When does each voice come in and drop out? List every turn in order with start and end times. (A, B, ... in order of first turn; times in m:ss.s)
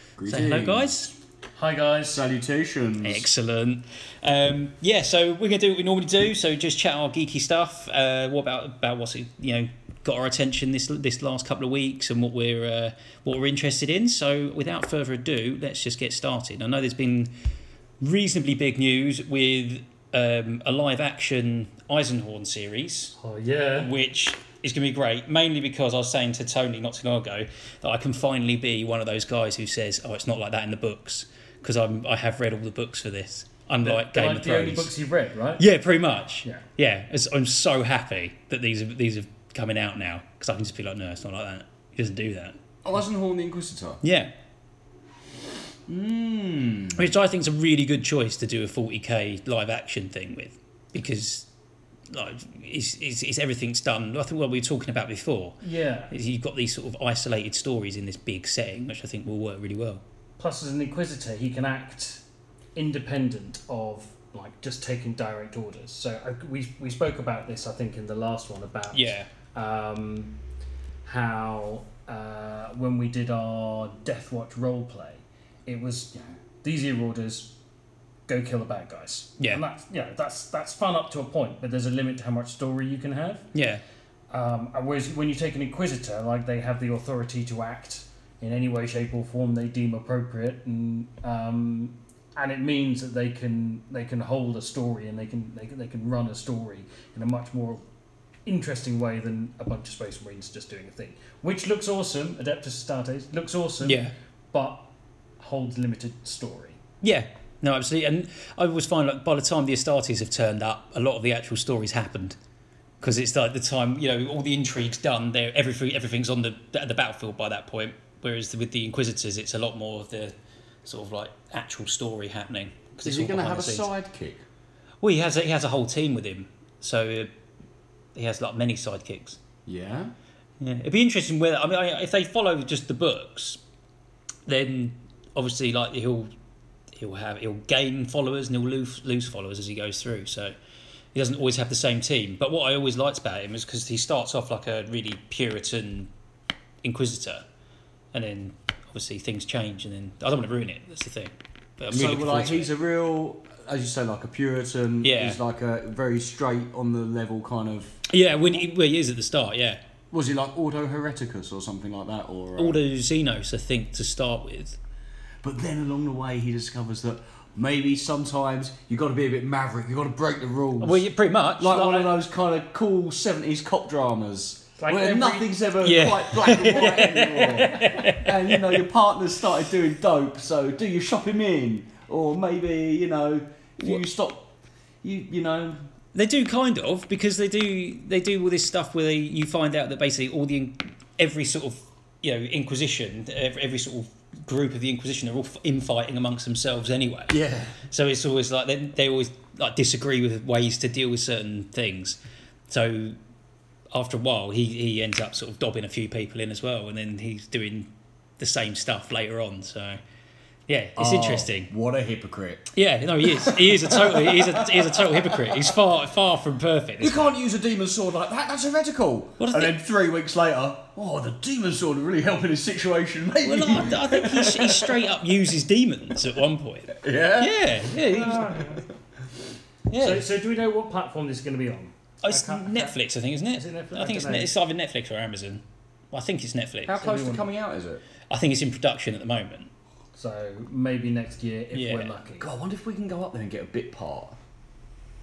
0:00.2-0:01.1 A
0:00.2-0:01.1 B
0:01.5-0:02.2 C
0:02.1-0:03.2 A
0:03.0-0:17.3 B
0:18.0-0:23.1 B
0:23.2-0:23.9 C
0:23.8-0:34.9 B
0:33.8-0:35.6 C
0:35.6-0:42.6 B
0:42.8-0:44.0 A
0:44.0-0:44.3 B
0:45.9-0:47.0 A
0:46.9-0:51.5 B
0:52.1-0:55.6 B
0:55.6-0:56.1 C
0:56.1-1:00.0 B
1:00.4-1:02.2 C
1:02.8-1:10.4 C
1:08.9-1:09.3 B
1:11.0-1:17.6 C
1:18.3-1:23.5 C
1:19.4-1:19.6 B
1:23.5-1:23.8 B
1:24.3-1:37.8 C
1:38.4-1:44.9 C
1:43.8-1:44.1 B
1:45.4-1:46.8 C
1:47.0-1:52.4 B
1:53.0-2:03.9 B
2:03.0-2:04.4 A
2:05.0-2:07.3 B
2:08.1-2:09.4 B
2:09.6-2:10.1 A
2:10.6-2:13.6 B
2:14.5-2:16.3 B
2:16.9-2:20.5 B
2:21.1-2:26.1 B
2:26.8-2:27.4 B
2:28.1-2:32.7 B
2:31.9-2:38.0 A
2:35.0-2:35.4 B
2:38.1-2:39.8 B
2:40.1-2:42.8 A
2:42.6-2:44.8 B
2:45.4-2:51.0 A
2:50.8-2:52.1 B
2:51.6-3:04.5 A
2:54.8-2:55.6 C
2:55.8-2:58.8 B
3:05.0-3:05.8 A
3:06.1-3:22.2 B
3:17.3-3:17.8 A
3:22.7-3:23.2 B
3:23.9-3:30.0 B
3:30.7-3:31.7 B
3:31.0-3:32.7 A
3:32.7-3:37.3 B
3:33.2-3:35.7 A
3:37.0-3:45.0 A
3:39.4-3:39.8 B
3:43.4-3:48.6 B
3:46.9-3:48.8 A
3:48.1-3:48.8 C
3:49.9-3:50.3 B
3:50.0-3:53.0 C
3:52.2-3:57.0 B
3:53.5-3:54.5 C
3:56.8-3:58.0 A
3:57.0-3:57.5 C
3:58.3-3:59.7 B
4:00.1-4:02.5 C
4:01.7-4:02.1 B
4:02.4-4:04.4 A